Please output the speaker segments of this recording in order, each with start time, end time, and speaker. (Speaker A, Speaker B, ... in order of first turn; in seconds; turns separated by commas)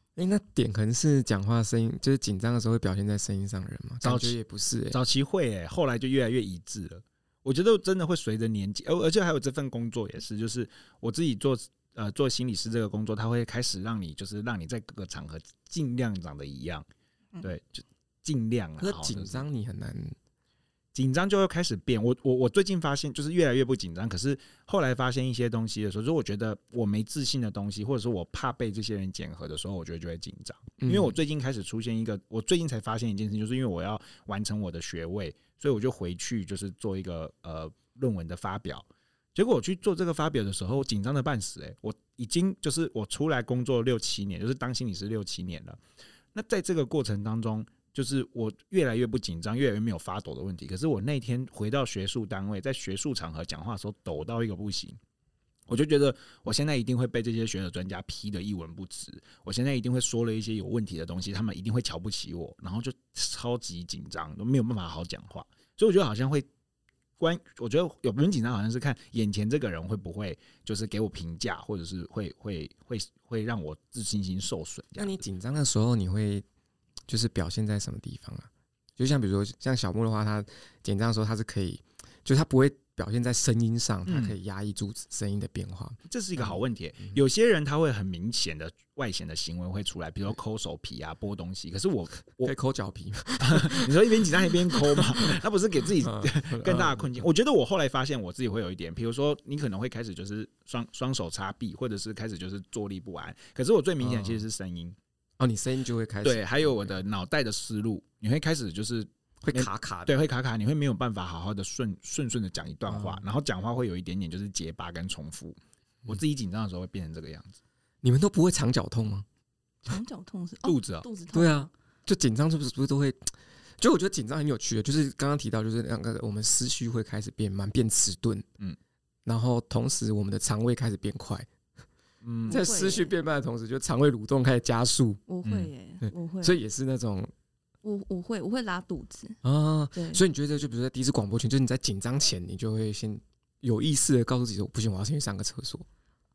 Speaker A: 0.2-5.0, Speaker B: 4.0-4.3, Speaker B: 4.9-16.9, Speaker B: 17.4-19.4, Speaker A: 18.8-20.1, Speaker B: 20.9-45.8, Speaker A: 30.8-31.1, Speaker B: 46.3-55.0, Speaker B: 55.7-66.5, Speaker B: 67.2-75.2, Speaker A: 75.0-76.4, Speaker A: 77.1-87.2, Speaker B: 84.0-84.3, Speaker B: 86.1-92.5, Speaker A: 92.4-95.4, Speaker B: 93.4-105.0, Speaker A: 96.0-97.2, Speaker A: 104.0-104.4, Speaker A: 105.4-106.9, Speaker B: 106.2-117.6, Speaker A: 109.4-110.1, Speaker A: 112.9-113.2, Speaker A: 118.0-119.2, Speaker C: 119.8-121.7, Speaker B: 120.6-121.0, Speaker A: 121.3-128.4, Speaker A: 129.2-131.5, Speaker B: 132.2-132.6, Speaker C: 132.5-133.1, Speaker A: 132.5-135.2, Speaker C: 135.3-136.6, Speaker B: 135.4-135.7, Speaker A: 136.0-137.3, Speaker C: 137.8-139.4, Speaker A: 139.4-145.9, Speaker C: 139.9-140.2